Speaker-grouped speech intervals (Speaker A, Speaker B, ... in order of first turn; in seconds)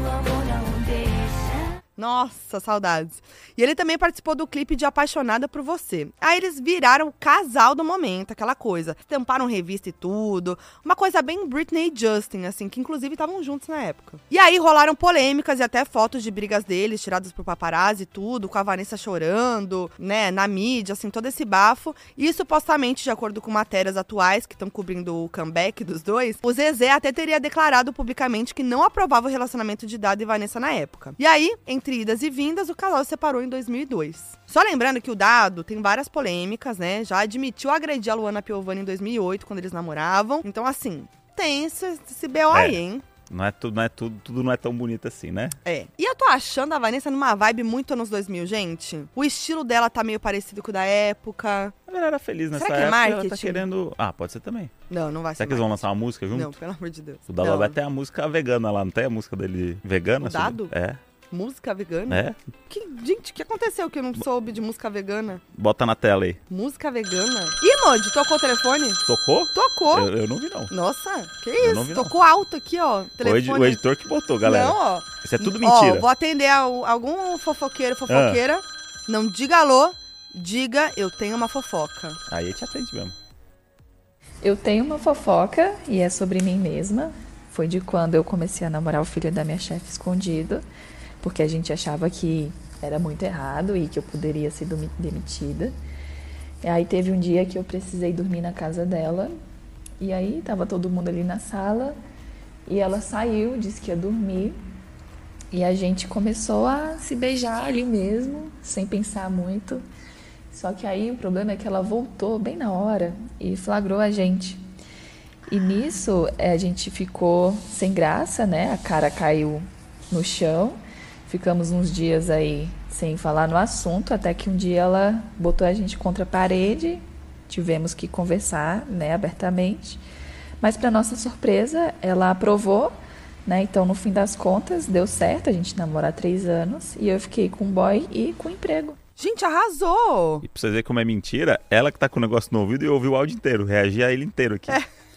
Speaker A: 2.0-43.0, 45.6-51.7, 52.5-53.6, 54.9-57.8, 60.2-60.7, 61.3-65.4, 66.5-70.1, 70.7-73.8, 74.4-82.2, 139.2-140.4
Speaker B: 42.5-45.5, 51.9-54.7, 55.4-56.5, 57.3-61.0, 62.1-62.4, 65.5-66.4, 69.0-70.7, 71.6-72.1, 73.2-76.0, 78.1-78.4, 82.3-83.1, 140.4-144.8
Speaker C: 84.4-90.6, 91.2-95.7, 96.6-99.3, 100.0-102.0, 102.7-104.6, 105.5-109.8, 110.5-114.6, 115.5-130.0, 130.6-139.0